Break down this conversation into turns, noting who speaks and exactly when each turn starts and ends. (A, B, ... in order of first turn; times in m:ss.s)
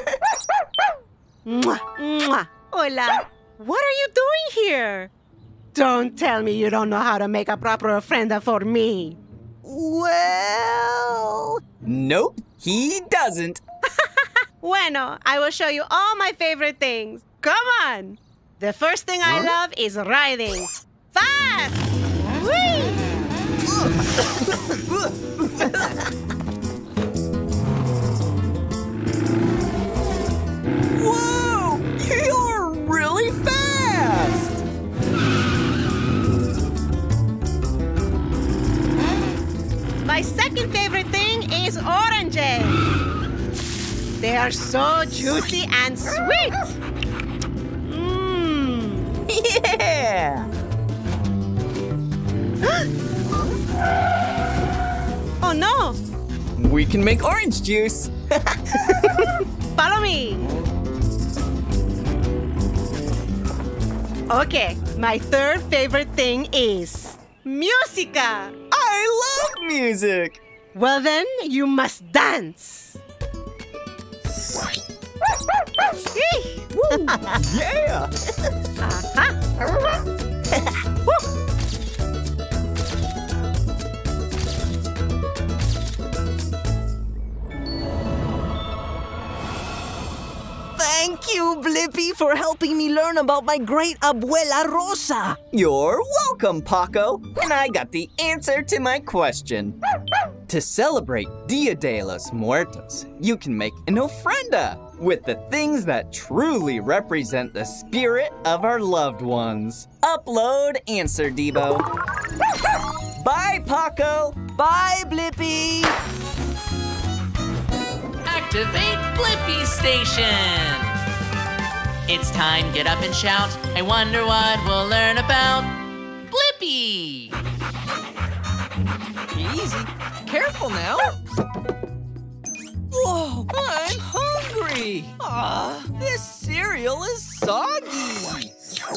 0:01.4-0:05.1 A
0:05.7-0:09.2 A
0:09.6-0:13.6 B
0:14.6-0:23.1 A
0:24.8-0:25.8 B
0:30.9-0:34.6 B
0:40.0-0:42.8 A
0:44.2-0:46.8 A
0:47.8-0:49.1 A
0:49.3-0:50.5 B
0:55.4-0:56.0 A
0:56.6-0:58.6 B
0:59.8-1:00.4 A
1:04.3-1:08.5 A
1:08.7-1:10.4 B
1:10.7-1:13.0 A
1:16.1-1:17.1 A
1:17.4-1:18.1 B
1:18.8-1:19.3 A
1:30.8-1:35.4 C
1:35.5-1:39.8 B
1:40.5-1:51.8 B
1:53.2-1:55.9 B
1:58.2-2:00.9 D
2:02.1-2:05.7 D
2:06.3-2:07.3 B
2:09.3-2:11.2 B
2:12.9-2:18.5 B